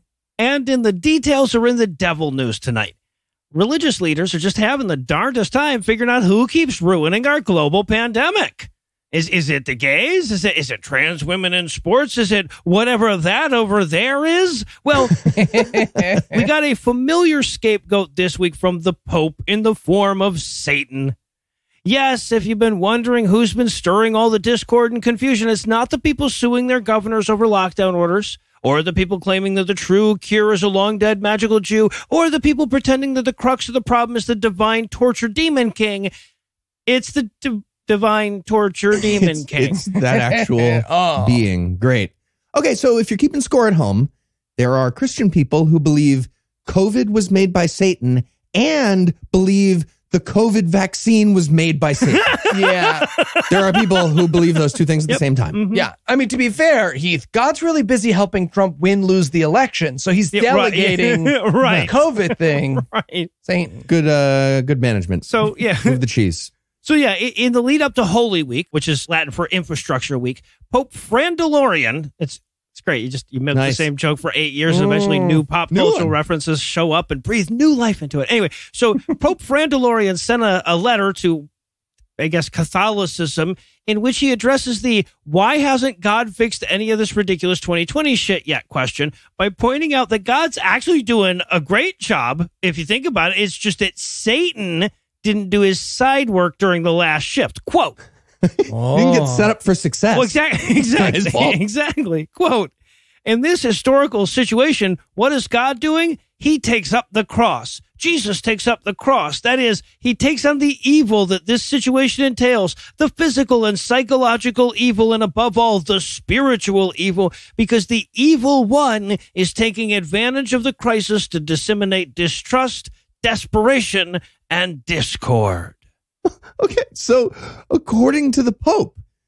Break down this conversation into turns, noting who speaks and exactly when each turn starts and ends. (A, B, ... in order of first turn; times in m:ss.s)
0:00.4-0:03.0 A
0:03.5-0:15.3 A
0:15.4-0:16.2 B
0:16.2-0:21.2 A
0:21.8-0:36.1 A
0:36.9-0:39.8 A
0:39.1-0:52.4 C
0:39.9-0:41.4 B
0:52.4-0:54.4 A
0:52.5-0:53.1 B
0:53.5-0:55.6 C
0:55.1-0:55.9 A
0:55.7-1:02.8 B
1:00.3-1:03.3 A
1:01.6-1:01.9 C
1:03.5-1:03.9 B
1:03.9-1:06.5 C
1:05.3-1:06.0 A
1:06.8-1:21.5 A
1:13.5-1:13.9 C
1:14.7-1:15.4 B
1:15.7-1:16.1 C
1:22.2-1:38.0 A
1:38.4-1:40.4 C
1:38.7-1:39.5 B
1:40.1-1:42.7 A
1:40.9-1:41.6 C
1:43.2-2:05.8 A
2:06.3-2:09.0 C